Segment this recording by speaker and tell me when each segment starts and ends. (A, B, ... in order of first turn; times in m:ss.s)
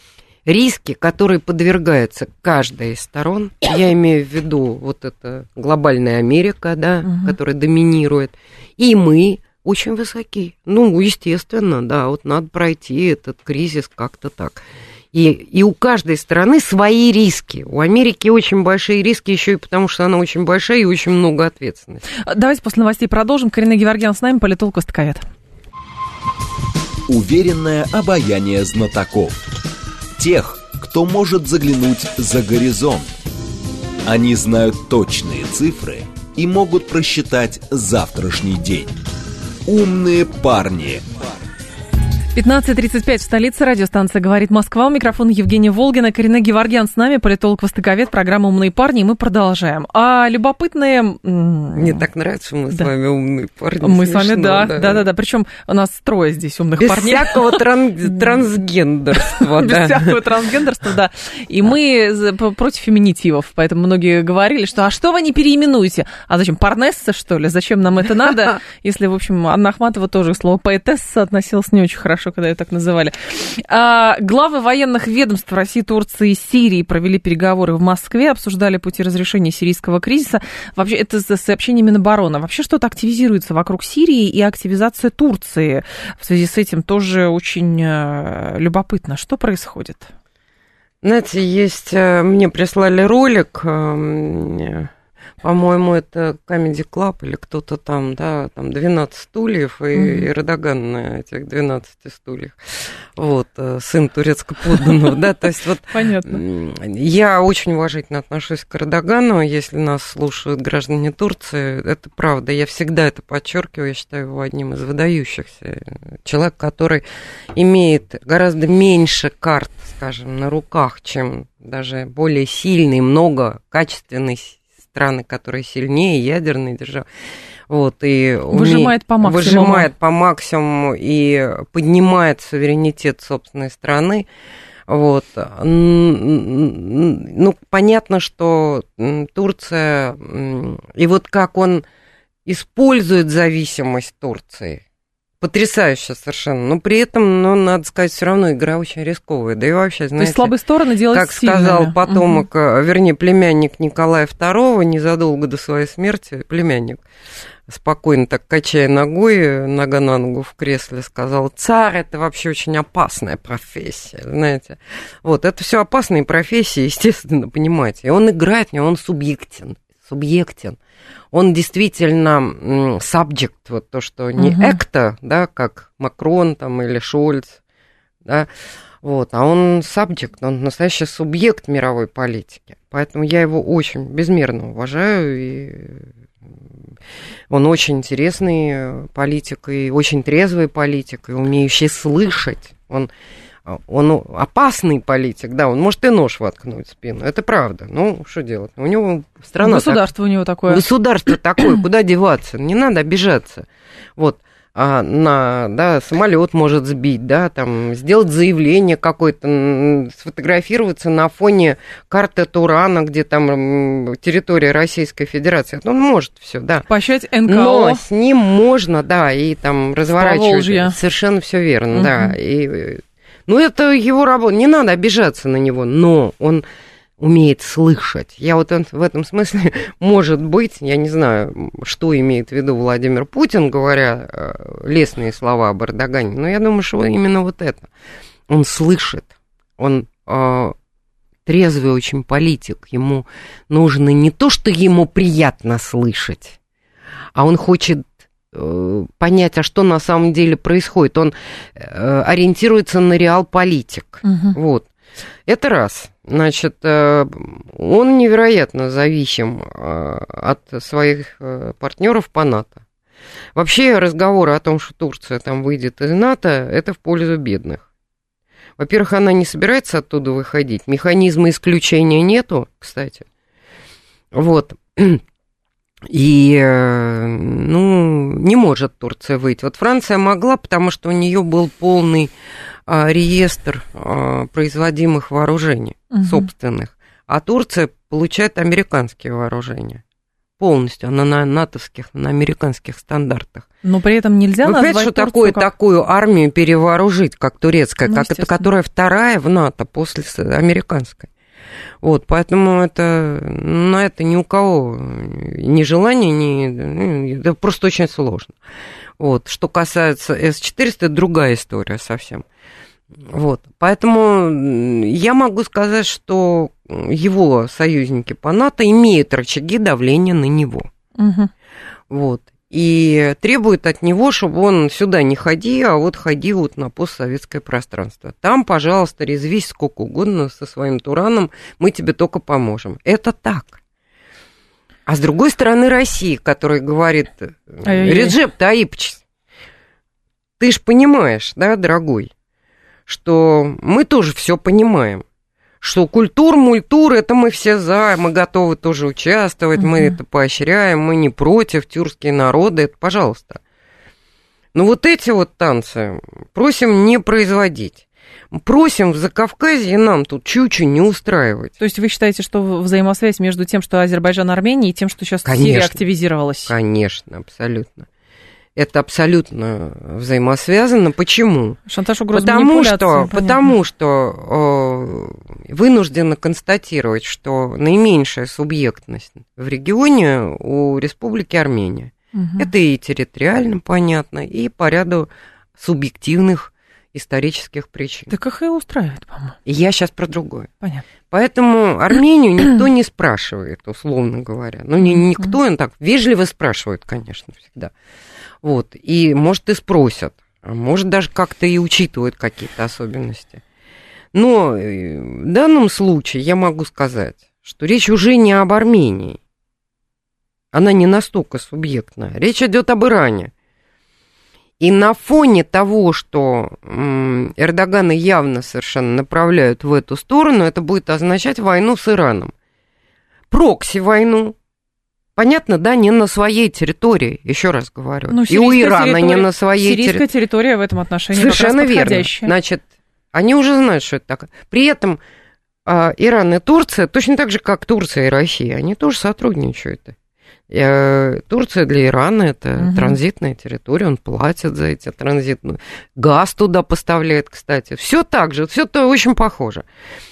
0:00.5-0:14.6 A
0:07.0-0:07.4 B
0:15.1-0:22.0 A
0:22.2-0:25.3 B
0:27.1-0:29.4 C
0:30.2-0:33.1 C
0:34.1-0:38.9 C
0:39.6-0:41.3 C
0:42.3-0:52.1 B
0:51.8-0:55.1 A
0:53.8-0:58.5 B
0:56.8-1:00.2 A
0:59.1-1:30.1 B
1:31.0-1:42.6 A
1:40.0-1:40.3 B
1:43.1-2:07.1 A
1:45.9-1:46.4 B
2:07.7-2:14.3 A
2:08.5-2:09.9 B
2:14.9-2:21.8 A
2:22.5-2:24.8 A
2:25.4-2:30.5 A
2:30.2-2:32.4 B
2:31.1-2:37.0 A
2:37.7-2:50.8 A
2:51.3-2:57.6 A
2:54.4-2:54.8 B
2:59.0-3:06.1 A
3:07.5-3:13.1 A
3:13.6-3:20.0 A
3:19.6-3:20.8 B
3:20.7-3:36.9 A
3:36.9-3:38.0 B
3:37.5-3:46.6 A
3:40.1-3:41.0 B
3:41.9-3:42.4 B
3:47.2-3:57.9 A
3:58.5-4:00.8 A
4:01.5-4:06.6 A
4:07.4-4:14.9 A
4:14.2-4:14.6 B
4:15.5-4:22.8 A
4:23.6-4:27.8 A
4:28.8-4:33.3 A
4:34.3-4:35.2 A
4:36.1-4:42.3 A
4:42.9-4:50.0 A
4:46.1-4:46.5 B
4:50.6-4:53.7 A
4:53.8-4:55.6 B
4:54.6-5:01.3 A
4:58.1-4:58.7 B
5:02.0-5:08.6 A
5:09.2-5:12.5 A
5:13.2-5:20.9 A
5:21.2-5:21.5 B
5:22.1-5:33.8 A
5:35.1-5:39.2 A
5:37.9-5:38.4 B
5:40.6-5:42.3 A
5:43.1-5:45.2 A
5:45.8-5:53.6 A
5:49.8-5:50.1 B
5:54.7-6:01.8 A
6:01.8-6:06.7 B
6:05.4-6:06.0 A
6:06.6-6:08.1 A
6:08.8-6:11.8 A
6:11.9-6:13.8 B
6:12.3-6:28.3 A
6:22.3-6:22.7 B
6:28.3-6:29.6 B
6:29.6-6:30.7 A
6:31.3-6:37.9 A
6:35.0-6:35.5 B
6:38.6-6:43.6 A
6:44.3-6:49.4 A
6:50.7-6:53.5 A
6:54.8-7:02.5 A
7:03.5-7:04.6 A
7:05.4-7:10.2 A
7:08.3-7:12.5 B
7:11.3-7:15.2 A
7:15.9-7:20.2 A
7:20.7-7:29.8 A
7:22.8-7:23.2 B